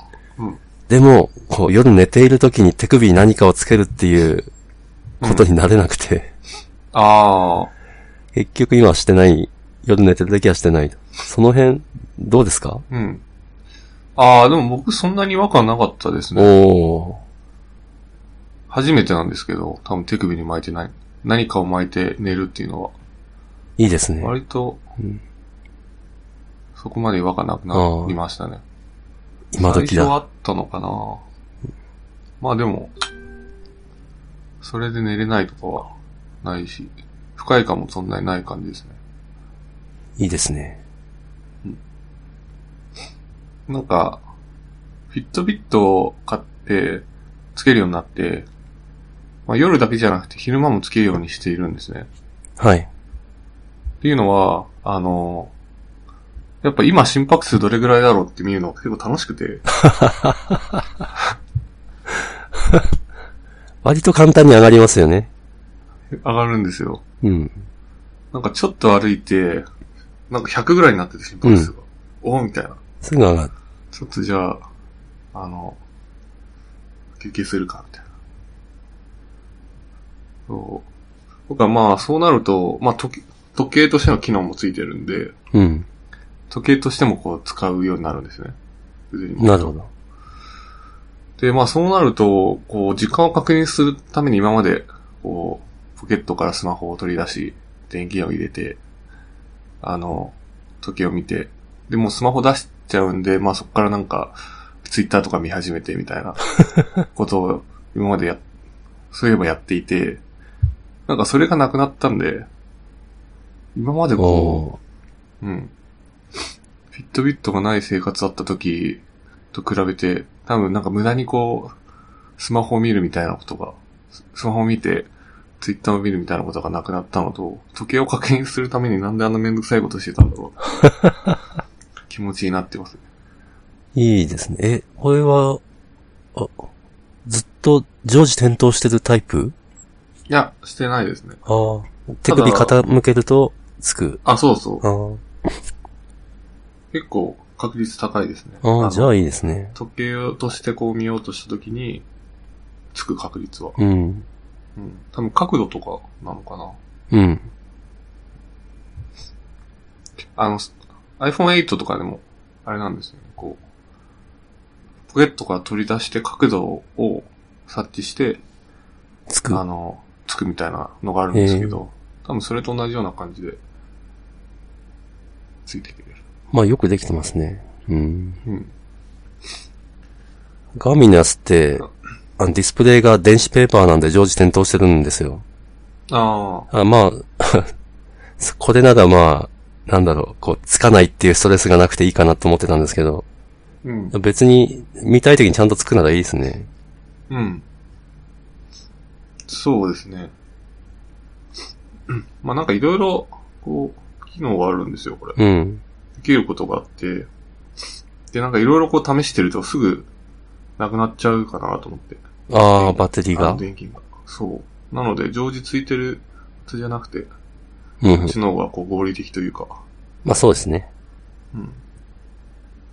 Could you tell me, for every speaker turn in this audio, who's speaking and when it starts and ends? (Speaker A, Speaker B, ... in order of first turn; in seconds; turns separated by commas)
Speaker A: 0.9-4.5, Speaker B: 5.2-5.5, Speaker A: 5.2-6.3, Speaker B: 6.9-7.7, Speaker A: 8.3-12.8, Speaker B: 12.9-13.2, Speaker B: 14.2-16.6, Speaker A: 16.4-17.2, Speaker B: 18.7-22.9, Speaker A: 23.8-24.3, Speaker B: 24.2-24.8, Speaker B: 26.8-28.6, Speaker A: 27.7-28.1, Speaker A: 29.5-30.1, Speaker B: 29.6-31.2, Speaker B: 32.4-32.9, Speaker B: 34.6-39.0, Speaker A: 40.2-40.8, Speaker B: 43.7-44.2, Speaker B: 45.1-48.5, Speaker B: 49.5-52.1, Speaker A: 52.6-52.9, Speaker B: 54.0-55.5, Speaker B: 56.6-59.7, Speaker A: 59.8-60.8, Speaker A: 62.5-62.9, Speaker A: 63.8-65.3, Speaker B: 66.1-67.0, Speaker A: 67.2-67.6, Speaker B: 68.3-69.7, Speaker B: 70.3-72.8, Speaker A: 71.4-71.7, Speaker A: 73.0-73.5, Speaker B: 73.9-74.6, Speaker B: 75.3-75.8, Speaker B: 77.2-78.1, Speaker B: 80.5-80.9, Speaker B: 81.5-85.3, Speaker A: 85.5-85.9, Speaker B: 86.5-88.6, Speaker B: 89.1-89.7, Speaker A: 89.4-89.9, Speaker B: 91.4-98.8, Speaker B: 99.8-106.4, Speaker B: 107.0-108.4, Speaker B: 109.1-110.2, Speaker B: 111.1-112.5, Speaker B: 113.8-114.7, Speaker A: 114.2-114.8, Speaker B: 115.4-115.7, Speaker B: 116.9-121.7, Speaker B: 122.4-123.8, Speaker B: 124.3-130.8, Speaker B: 132.1-133.0, Speaker A: 133.9-135.6, Speaker A: 136.3-136.7, Speaker A: 137.3-139.6, Speaker B: 140.3-141.4, Speaker A: 141.4-144.2, Speaker B: 142.3-142.8, Speaker B: 144.2-144.9, Speaker A: 144.8-145.2, Speaker B: 146.9-149.1, Speaker A: 148.6-149.7, Speaker B: 149.7-152.1, Speaker B: 152.9-153.8, Speaker A: 153.8-154.3, Speaker B: 154.8-156.8, Speaker A: 157.1-157.5, Speaker B: 160.4-163.6, Speaker B: 165.1-168.4, Speaker A: 169.3-169.6, Speaker B: 169.5-173.6, Speaker A: 171.3-171.8, Speaker B: 175.7-176.2, Speaker A: 176.5-178.4, Speaker B: 178.4-178.7, Speaker A: 180.8-181.9, Speaker A: 182.4-185.4, Speaker B: 186.1-186.7, Speaker A: 186.7-187.7, Speaker A: 188.4-193.2, Speaker B: 193.8-194.2, Speaker A: 194.1-196.7, Speaker B: 197.3-197.6, Speaker B: 199.5-200.3, Speaker B: 202.1-205.4, Speaker A: 205.4-205.8, Speaker B: 206.2-207.3, Speaker B: 208.3-210.1, Speaker B: 210.8-212.2, Speaker A: 212.5-213.6, Speaker B: 212.8-217.3, Speaker A: 218.0-218.3, Speaker B: 218.1-219.8, Speaker A: 220.2-220.9, Speaker B: 221.5-221.8